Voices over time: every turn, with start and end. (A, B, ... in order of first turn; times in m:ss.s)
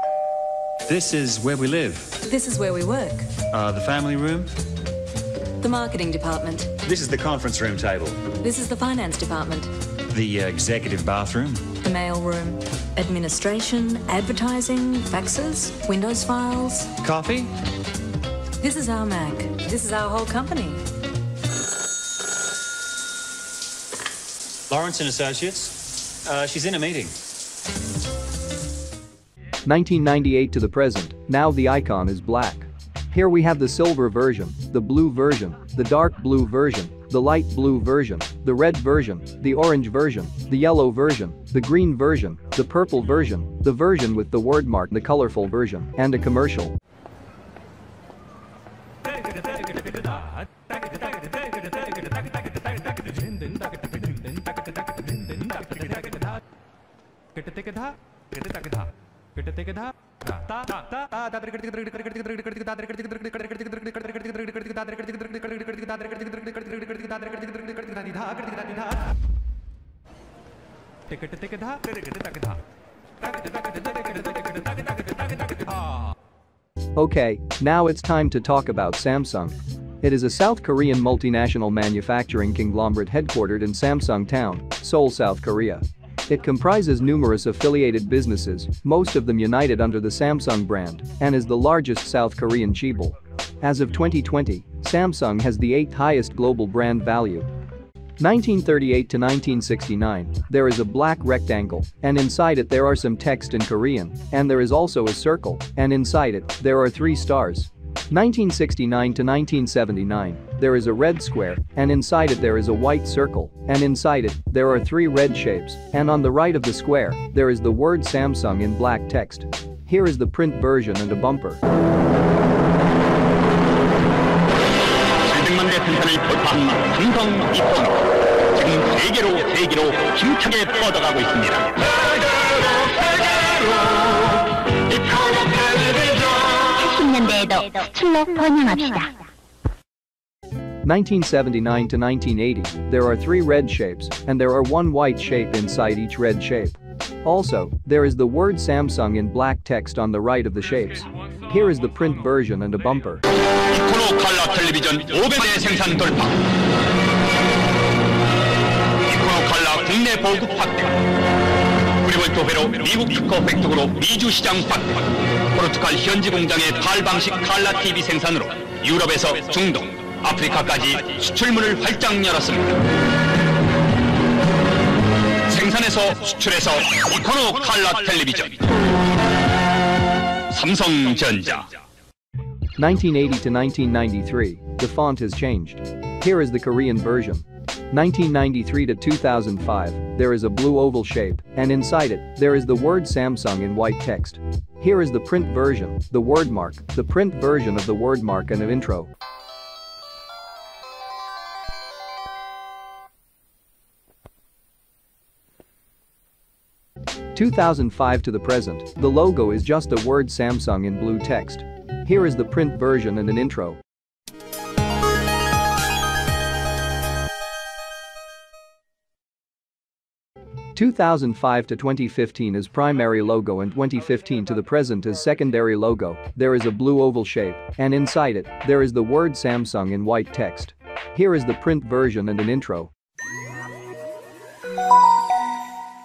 0:00.8-0:02.2 A
0:02.2-0:03.3 B
0:03.5-0:04.5 A
0:05.6-0:06.7 B
0:06.8-0:08.3 A
0:08.4-0:09.7 B
0:10.1-0:11.7 A
0:11.8-0:17.0 B
0:17.0-0:17.5 A
0:18.6-0:20.8 B
0:24.7-0:27.1 A
0:29.6-0:46.7 C
1:17.0-1:37.5 C
1:38.2-2:01.6 C
2:05.2-2:08.0 D
2:08.5-2:11.8 D
2:13.7-2:14.1 D
2:14.9-2:16.2 D
2:16.8-2:19.1 E
2:20.8-2:33.2 C
2:33.7-2:36.4 D
2:39.1-2:41.0 D
2:42.0-2:52.7 D
2:55.5-2:58.6 D
3:00.5-3:01.7 D
3:02.8-3:19.1 C
3:27.3-3:33.8 C
3:40.7-3:52.9 C